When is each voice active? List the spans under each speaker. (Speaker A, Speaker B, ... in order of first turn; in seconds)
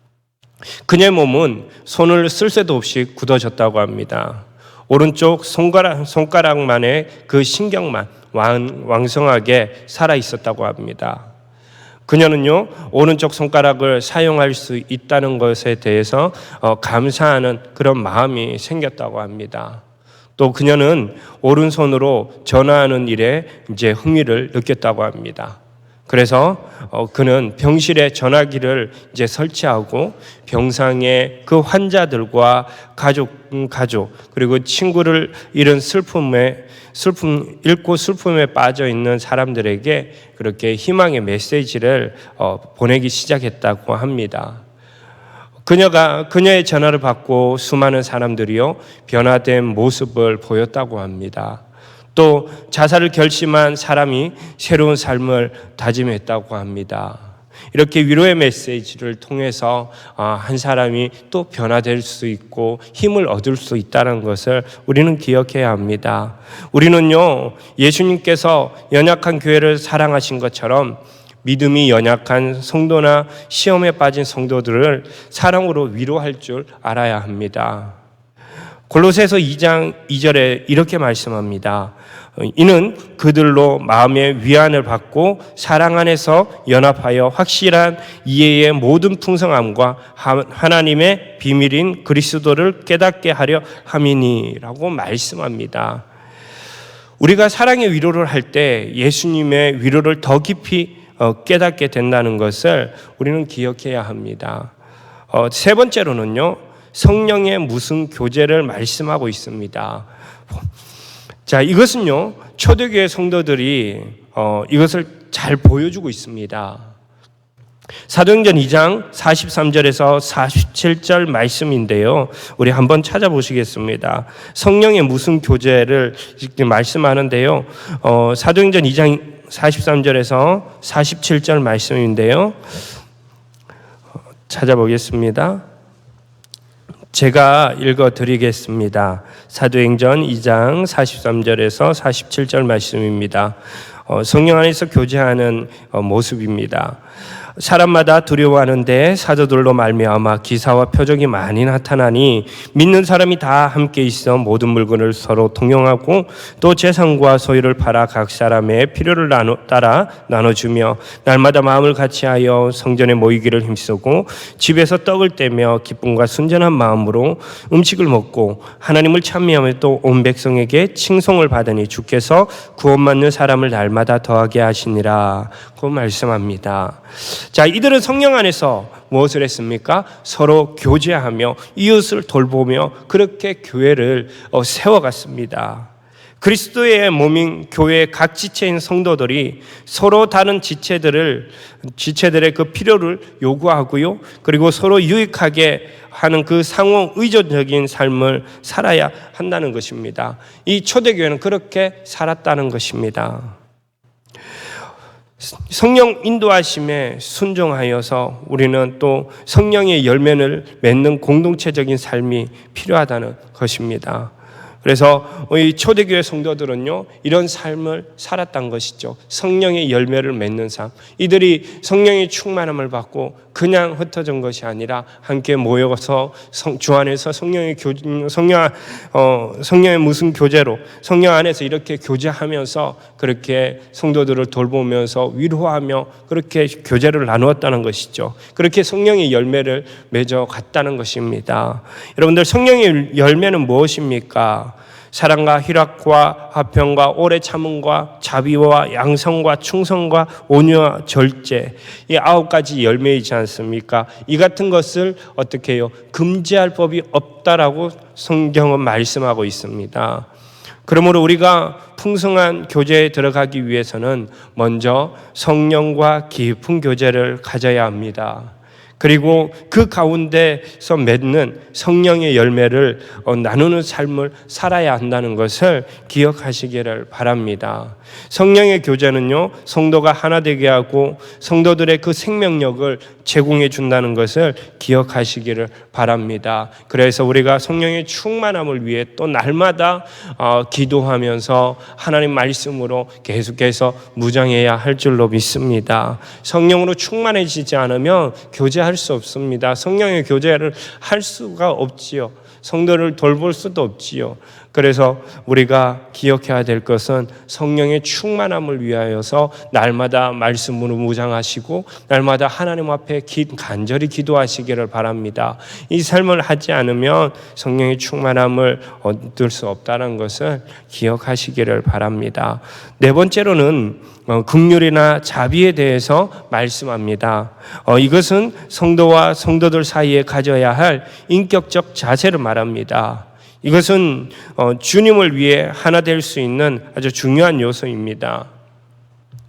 Speaker A: 0.9-11.3, 12.1-19.8, 20.4-44.6, 45.6-51.6, 52.1-78.0, 78.9-96.0, 97.2-104.7, 105.3-110.1, 111.5-116.9, 118.1-132.6, 134.5-135.6, 137.1-143.6, 144.1-147.0, 147.6-185.9, 186.4-203.6, 205.4-260.3, 260.9-338.5